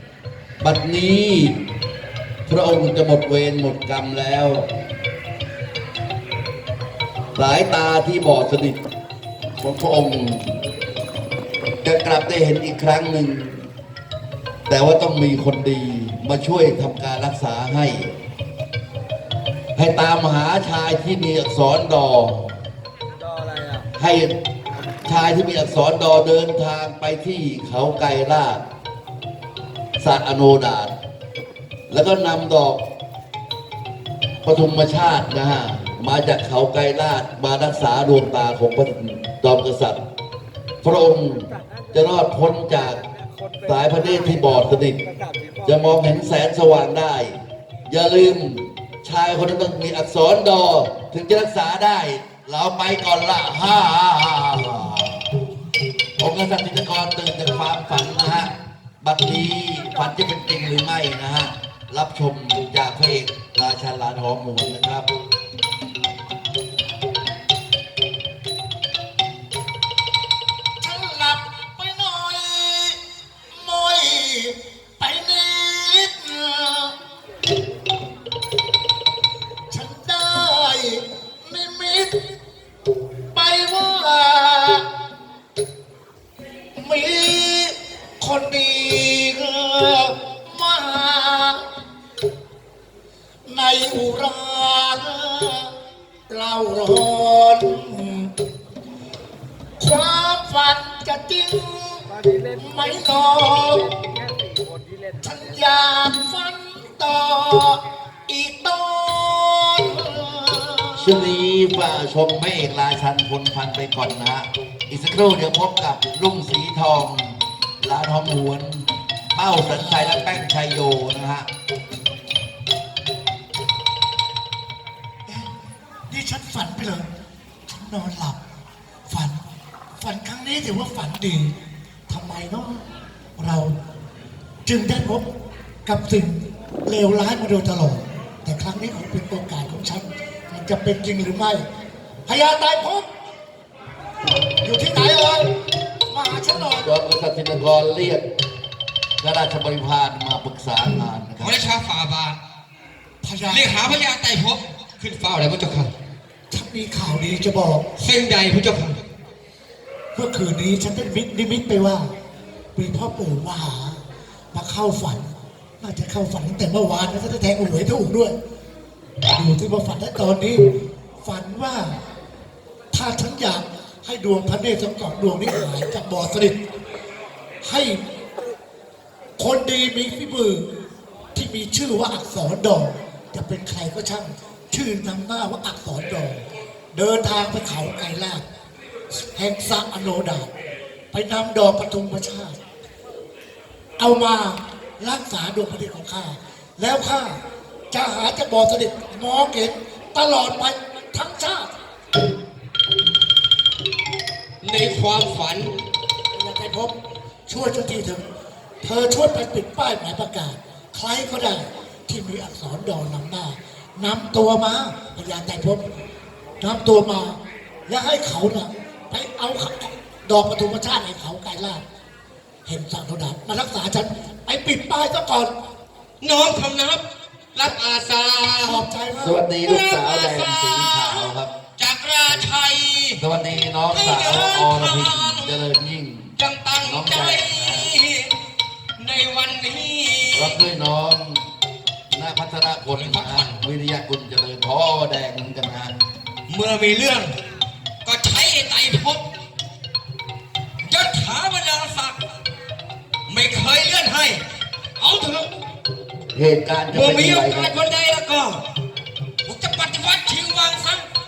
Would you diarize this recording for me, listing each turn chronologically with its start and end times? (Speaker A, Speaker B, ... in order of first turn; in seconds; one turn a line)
Speaker A: 0.6-1.6
Speaker A: 2.5-4.7
Speaker A: 7.3-8.8
Speaker A: 9.6-10.6
Speaker A: 11.8-13.7
Speaker A: 14.7-18.1
Speaker A: 19.8-22.6
Speaker B: 23.2-23.9
Speaker A: 23.9-24.4
Speaker A: 25.0-28.6
Speaker A: 30.0-30.9
Speaker A: 31.9-32.8
Speaker A: 34.4-40.0
Speaker A: 40.8-43.0
Speaker B: 43.0-45.7
Speaker A: 43.6-45.0
Speaker A: 45.6-55.3
Speaker A: 56.2-65.1
Speaker C: 70.8-73.0
Speaker C: 73.5-77.0
Speaker C: 79.7-82.2
Speaker C: 83.3-84.9
Speaker C: 86.8-91.7
Speaker C: 93.5-95.7
Speaker C: 96.3-98.3
Speaker C: 99.8-104.0
Speaker B: 102.1-102.9
Speaker B: 103.6-105.3
Speaker C: 105.2-111.4
Speaker A: 111.0-121.5
Speaker C: 126.1-127.1
Speaker C: 127.7-128.4
Speaker C: 129.1-131.5
Speaker C: 132.1-132.8
Speaker C: 133.4-133.7
Speaker C: 134.7-135.3
Speaker C: 135.8-141.6
Speaker C: 142.2-143.1
Speaker C: 144.6-145.5
Speaker C: 146.1-146.9
Speaker A: 146.8-148.2
Speaker A: 149.2-151.5
Speaker D: 151.4-152.4
Speaker C: 153.2-153.8
Speaker D: 153.5-155.9
Speaker C: 156.5-157.8
Speaker D: 158.0-159.0
Speaker C: 160.1-162.1
Speaker C: 162.8-164.0
Speaker C: 164.5-168.3
Speaker C: 169.3-170.7
Speaker C: 171.2-172.0
Speaker C: 172.9-176.6
Speaker C: 177.6-178.0
Speaker C: 179.4-180.7
Speaker C: 181.3-188.4
Speaker C: 189.3-190.5
Speaker C: 191.1-192.6
Speaker C: 194.0-201.7
Speaker D: 204.6-205.8
Speaker C: 206.4-206.9
Speaker C: 207.5-208.2
Speaker C: 208.8-215.9
Speaker C: 216.6-221.8
Speaker C: 222.6-225.5
Speaker D: 226.2-227.0
Speaker D: 227.5-228.8
Speaker C: 228.6-229.4
Speaker A: 229.2-231.5
Speaker D: 229.6-233.2
Speaker A: 233.2-237.9
Speaker D: 233.9-235.7
Speaker D: 236.4-238.3
Speaker D: 239.0-240.6
Speaker A: 240.3-241.4
Speaker A: 242.1-245.9
Speaker D: 242.9-243.6
Speaker D: 246.5-247.4
Speaker D: 248.0-249.2
Speaker D: 250.8-252.2
Speaker D: 253.3-254.4
Speaker D: 255.0-255.5
Speaker A: 256.3-257.7
Speaker D: 256.9-258.6
Speaker D: 259.4-261.1